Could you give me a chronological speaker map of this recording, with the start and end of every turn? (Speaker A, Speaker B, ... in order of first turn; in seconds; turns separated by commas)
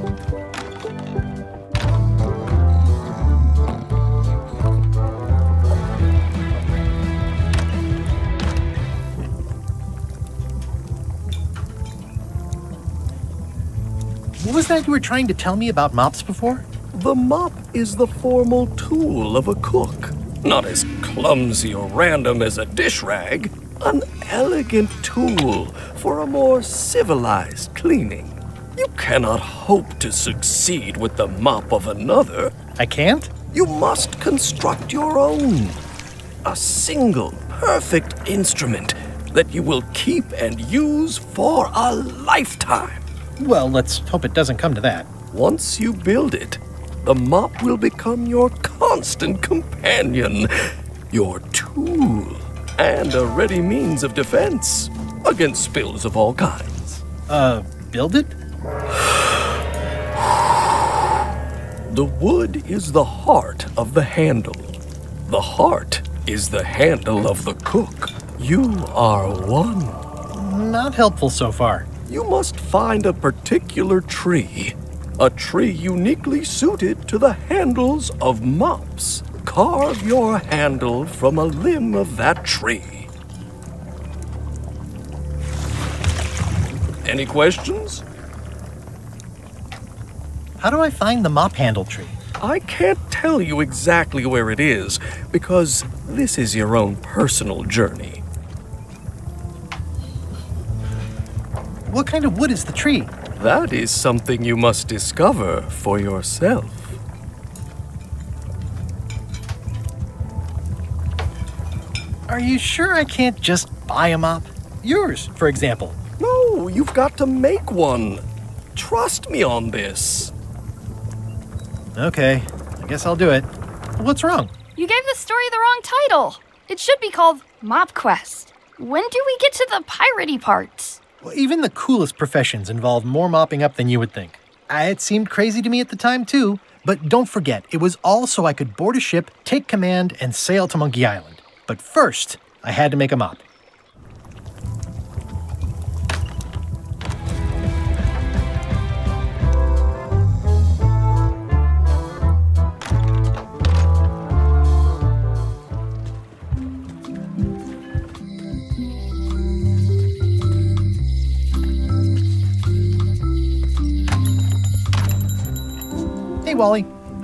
Speaker A: 14.4-16.6, Speaker B: 16.9-32.5, Speaker A: 32.8-33.3, Speaker B: 33.5-35.8, Speaker B: 36.4-43.0, Speaker A: 43.4-45.1, Speaker B: 45.3-57.0, Speaker A: 57.3-58.3, Speaker B: 61.9-70.0, Speaker A: 70.3-71.9, Speaker B: 72.0-83.1, Speaker B: 87.0-88.0, Speaker A: 90.6-92.1, Speaker B: 92.4-98.2, Speaker A: 101.9-103.1, Speaker B: 103.3-107.0, Speaker A: 112.3-116.0, Speaker B: 116.2-118.2, Speaker B: 118.7-120.3, Speaker A: 121.9-124.5, Speaker C: 124.8-131.0, Speaker A: 131.2-143.4, Speaker A: 166.4-166.9